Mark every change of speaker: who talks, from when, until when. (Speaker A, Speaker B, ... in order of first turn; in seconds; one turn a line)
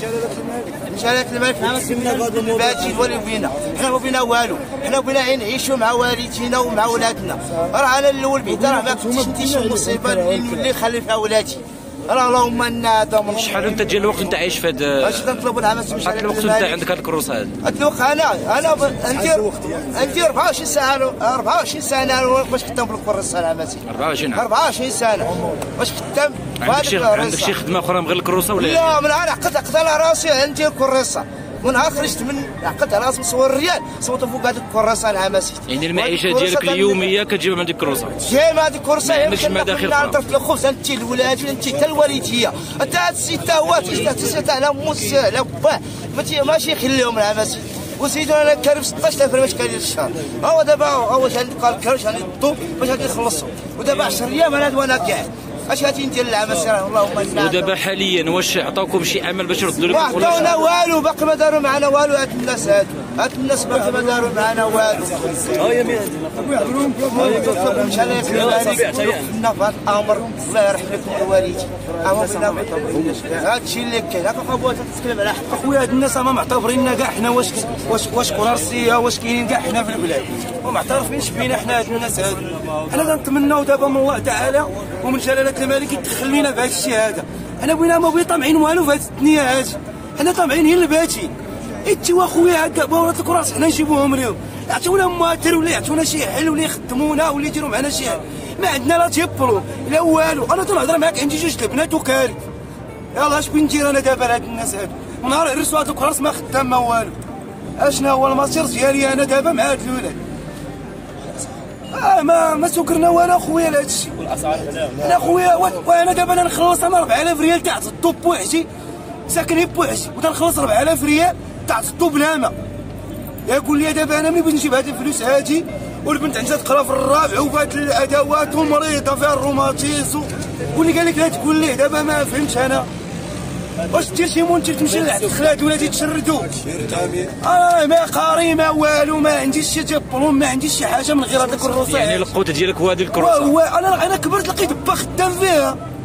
Speaker A: 0.9-13.9
Speaker B: 13.3-17.6
Speaker A: 15.0-16.8
Speaker A: 17.6-27.6
Speaker B: 23.9-24.4
Speaker B: 26.6-28.9
Speaker A: 28.6-37.1
Speaker B: 35.7-38.2
Speaker A: 38.2-57.7
Speaker B: 39.0-40.3
Speaker B: 57.4-60.6
Speaker A: 59.9-65.7
Speaker C: 65.8-67.5
Speaker A: 67.0-75.5
Speaker C: 75.5-91.3
Speaker C: 91.8-102.4
Speaker C: 103.2-107.2
Speaker C: 107.8-110.2
Speaker C: 111.9-118.7
Speaker C: 119.3-122.5
Speaker C: 123.5-132.9
Speaker C: 133.9-142.3
Speaker B: 141.8-143.5
Speaker C: 143.2-145.8